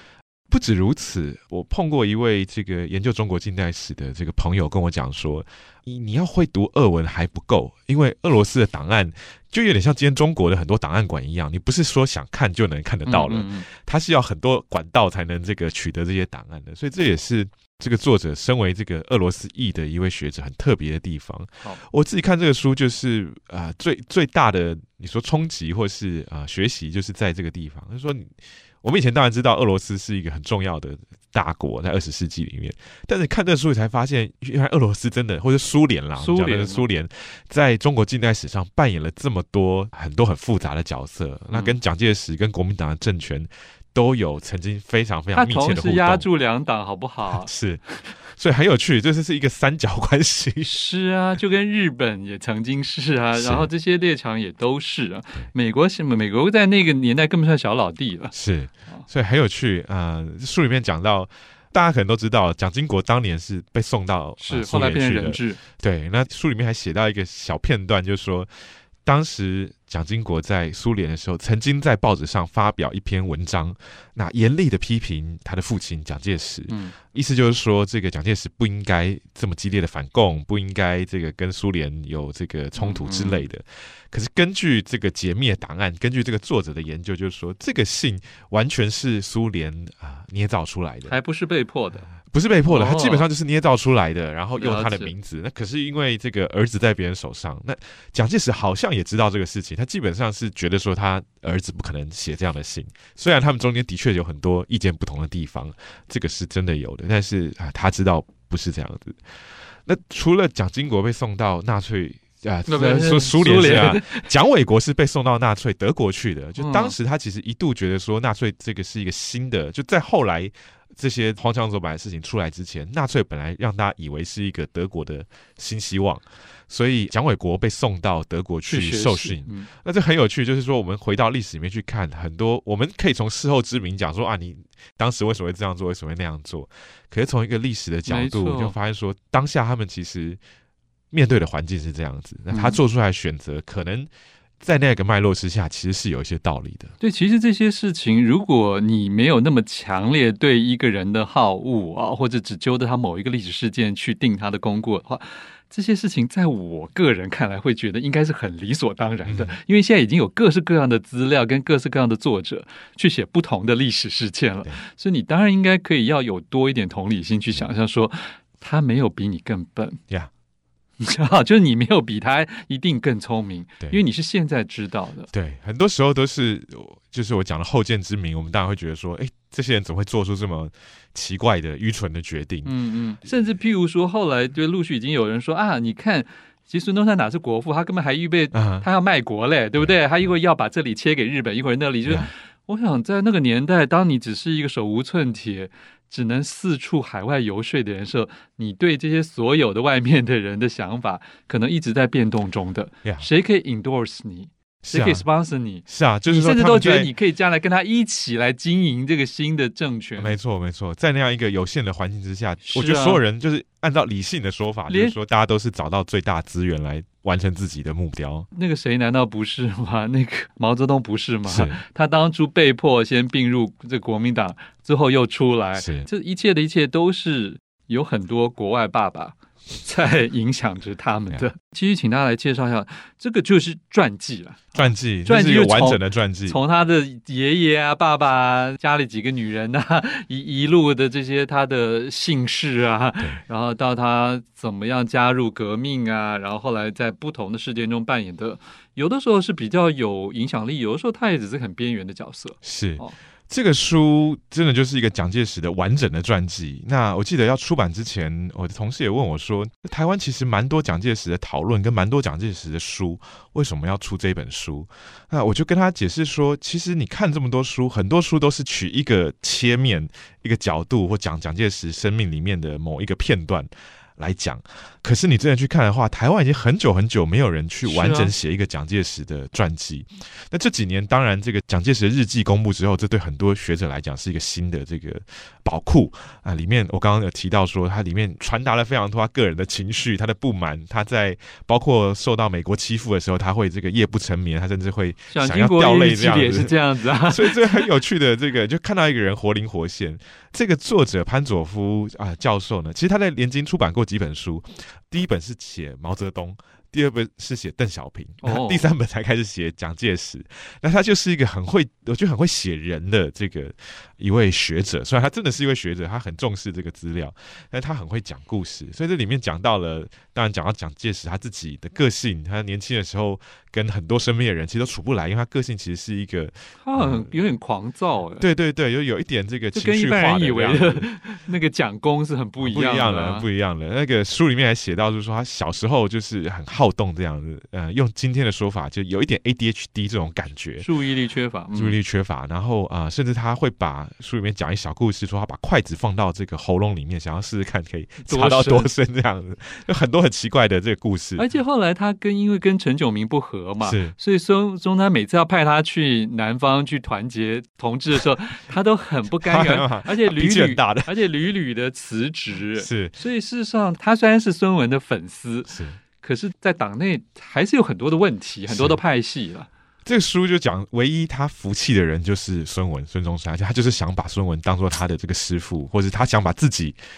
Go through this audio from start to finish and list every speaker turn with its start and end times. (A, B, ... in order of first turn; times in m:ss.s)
0:00.5-0:46.3 A
0:13.1-0:13.7 B
0:36.2-0:36.8 B
0:41.5-0:41.8 B
0:45.3-0:47.5 B
0:47.3-0:50.8 A
0:50.6-0:58.4 B
0:53.3-0:53.7 A
0:58.3-1:08.5 A
1:04.4-1:05.6 B
1:09.0-1:31.2 A
1:16.7-1:17.0 B
1:22.8-1:23.5 B
1:31.0-1:32.1 B
1:32.3-1:49.2 A
1:32.6-1:33.3 B
1:34.6-1:35.1 B
1:49.9-2:20.4 A
1:52.7-1:54.3 B
1:56.6-1:57.0 B
2:08.7-2:09.7 B
2:18.0-2:18.8 B
2:21.1-2:24.1 A
2:22.5-2:22.8 B
2:24.6-2:27.0 A
2:27.0-2:50.0 B
2:39.2-2:39.6 A
2:51.0-2:55.3 B
2:55.3-3:02.8 A
3:02.6-3:30.4 B
3:08.5-3:08.9 A
3:09.8-3:10.3 A
3:12.1-3:12.3 A
3:24.8-3:25.2 A
3:25.9-3:27.1 A
3:30.2-3:38.5 A
3:32.6-3:33.2 B
3:34.9-3:35.2 B
3:38.5-4:13.2 B
3:41.5-3:41.8 A
3:45.8-3:46.1 A
3:54.7-3:56.6 A
4:12.6-5:27.3 A
4:37.8-4:38.3 B
4:55.3-4:57.9 B
5:08.4-5:08.9 B
5:26.8-5:28.5 B
5:28.4-5:31.1 A
5:29.7-5:33.5 B
5:32.6-5:40.9 A
5:40.8-5:42.0 B
5:41.7-5:51.5 A
5:48.2-5:48.9 B
5:51.4-6:09.7 B
5:53.8-5:54.2 A
5:59.4-6:01.2 A
6:02.7-6:03.2 A
6:05.7-6:06.0 A
6:08.7-6:09.0 A
6:10.0-6:17.0 A